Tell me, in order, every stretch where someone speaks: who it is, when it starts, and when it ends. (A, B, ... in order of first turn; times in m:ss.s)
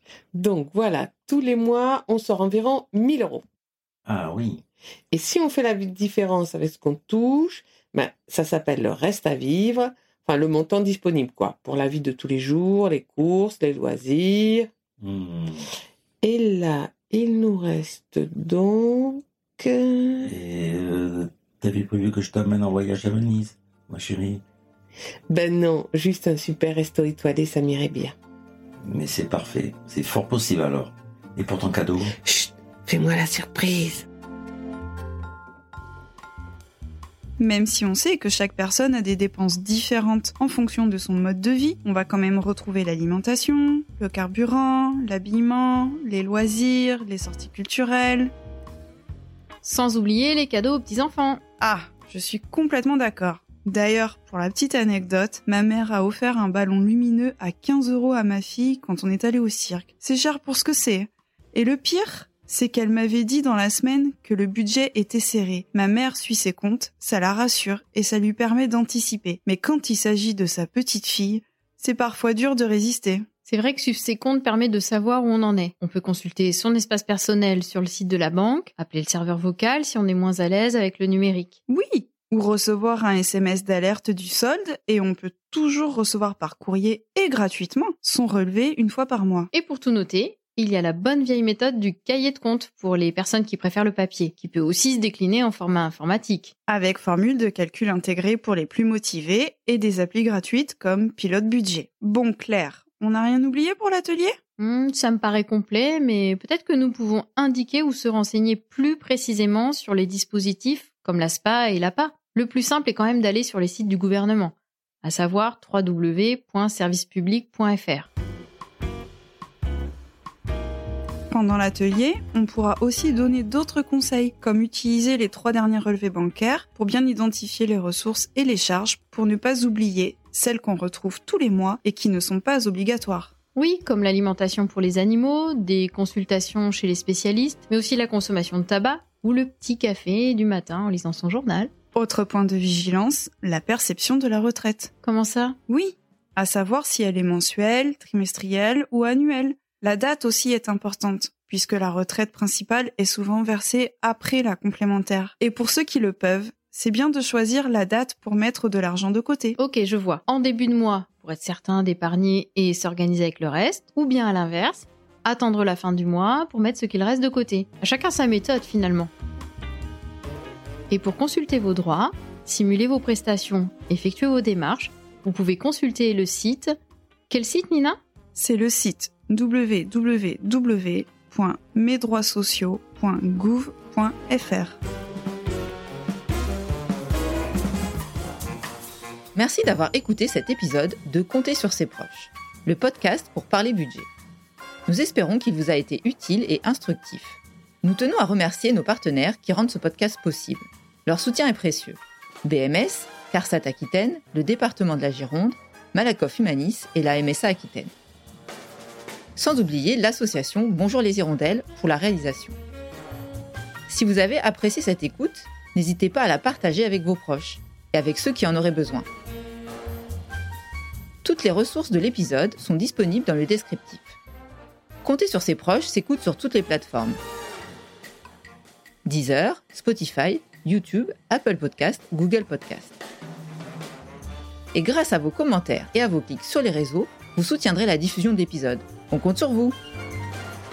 0:00.4-0:03.4 A
0:04.1-0:04.6 B
0:05.1-0:14.7 A
0:15.0-0:15.7 B
0:16.2-0:20.3 A
0:20.2-0:24.4 B
0:25.3-0:28.1 A
0:28.8-0:32.2 B
0:32.2-0:34.1 A
0:37.4-0:48.3 C
0:49.6-0:51.4 D
0:51.6-1:13.3 C
1:13.5-1:21.6 D
1:21.7-1:29.5 C
1:29.5-1:36.5 D
1:36.7-1:44.4 C
1:44.6-1:58.1 D
2:01.3-2:13.3 C
2:13.6-2:21.7 D
2:22.0-2:24.9 C
2:25.0-2:25.6 D
2:25.7-2:39.6 C
2:39.6-2:49.1 D
2:50.9-2:56.7 D
2:57.3-2:58.0 D
2:58.4-3:04.8 C
3:09.4-3:14.1 E
3:14.9-3:27.9 E
3:29.4-3:32.6 E
3:33.9-3:39.1 E
3:41.2-3:44.2 E
3:45.0-3:47.2 E
3:49.0-3:52.9 E
3:54.7-3:59.8 E